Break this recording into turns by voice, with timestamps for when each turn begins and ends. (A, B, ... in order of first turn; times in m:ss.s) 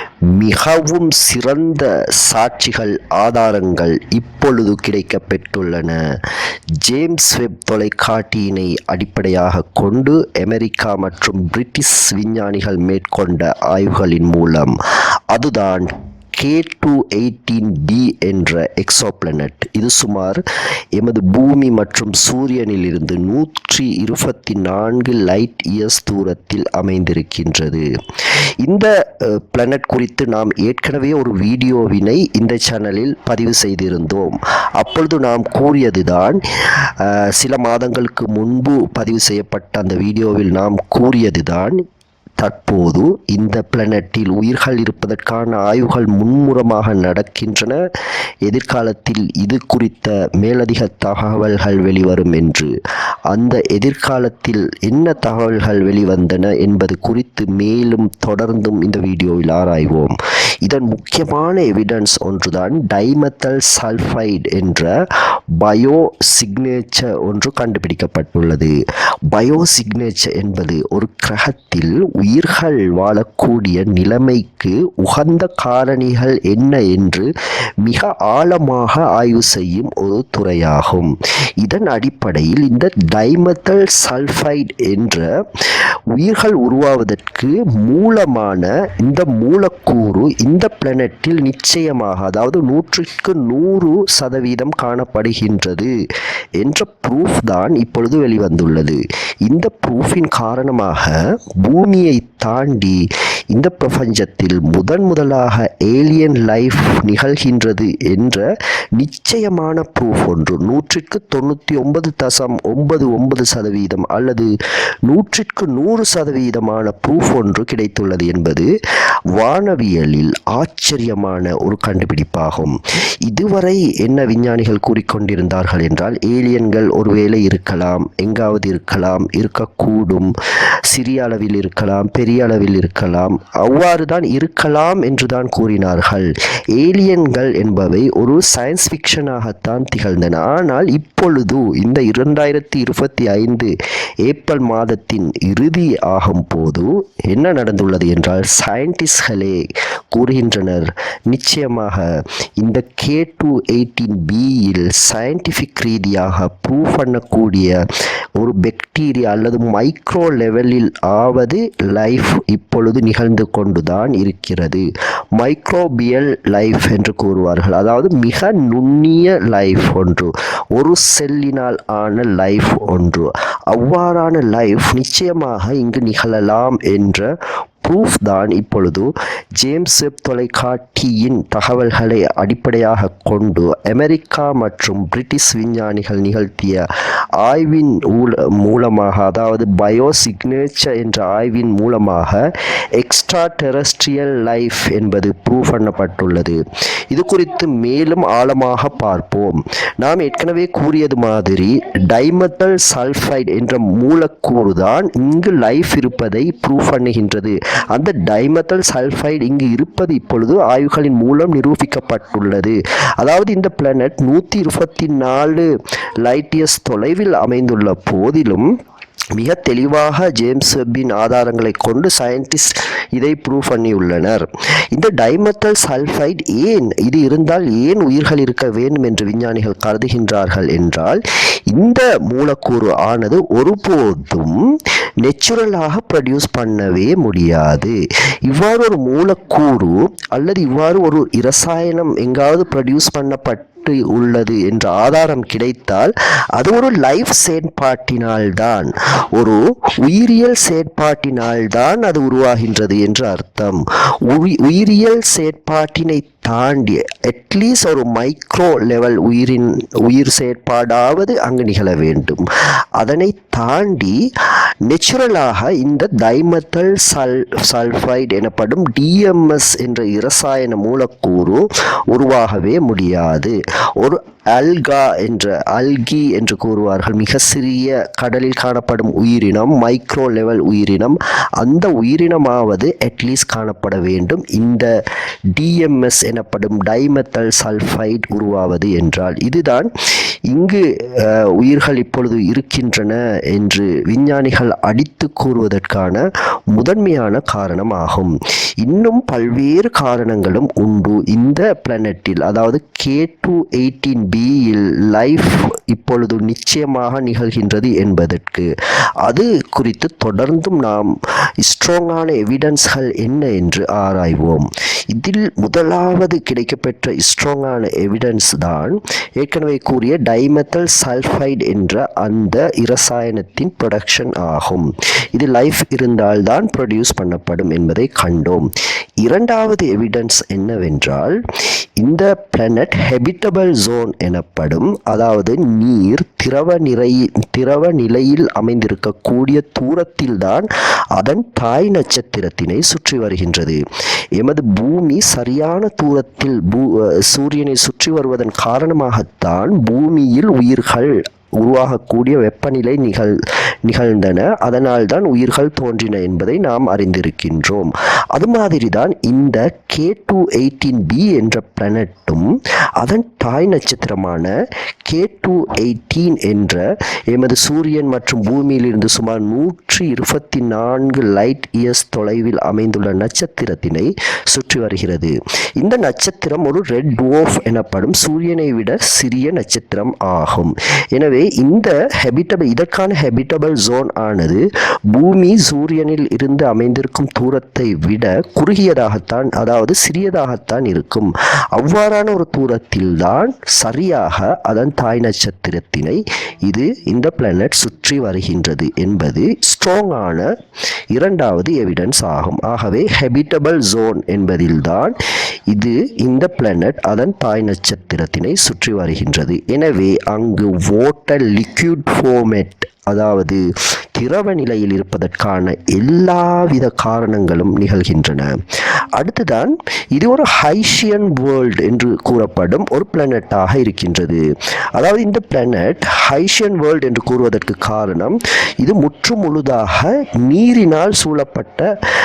0:00.3-0:06.2 A
0:06.8-0:14.7 A
0:15.3-0:20.4 A
0:20.9-0:41.8 A
0:42.4-0:47.8 A
0:48.4-0:52.7 A
0:53.3-1:04.9 A
1:05.6-1:08.7 A
1:09.3-1:17.3 A
1:17.8-1:35.9 A
1:36.6-1:54.5 A
1:55.1-1:58.7 A
1:59.3-2:10.3 A
2:10.8-2:23.7 A
2:24.2-2:37.8 A
2:38.4-2:57.3 A
2:57.8-3:06.9 A
3:07.4-3:35.7 A
3:36.2-3:38.7 A
3:39.3-4:22.4 A
4:23.0-4:44.9 A
4:45.5-4:49.9 A
4:50.5-5:08.7 A
5:09.2-5:28.7 A
5:29.2-5:31.4 A
5:32.0-5:43.8 A
5:44.4-6:04.5 A
6:05.1-6:40.5 A
6:41.1-6:45.2 A
6:45.7-6:53.6 A
6:54.1-6:58.6 A
6:59.2-7:04.4 A
7:04.9-7:11.9 A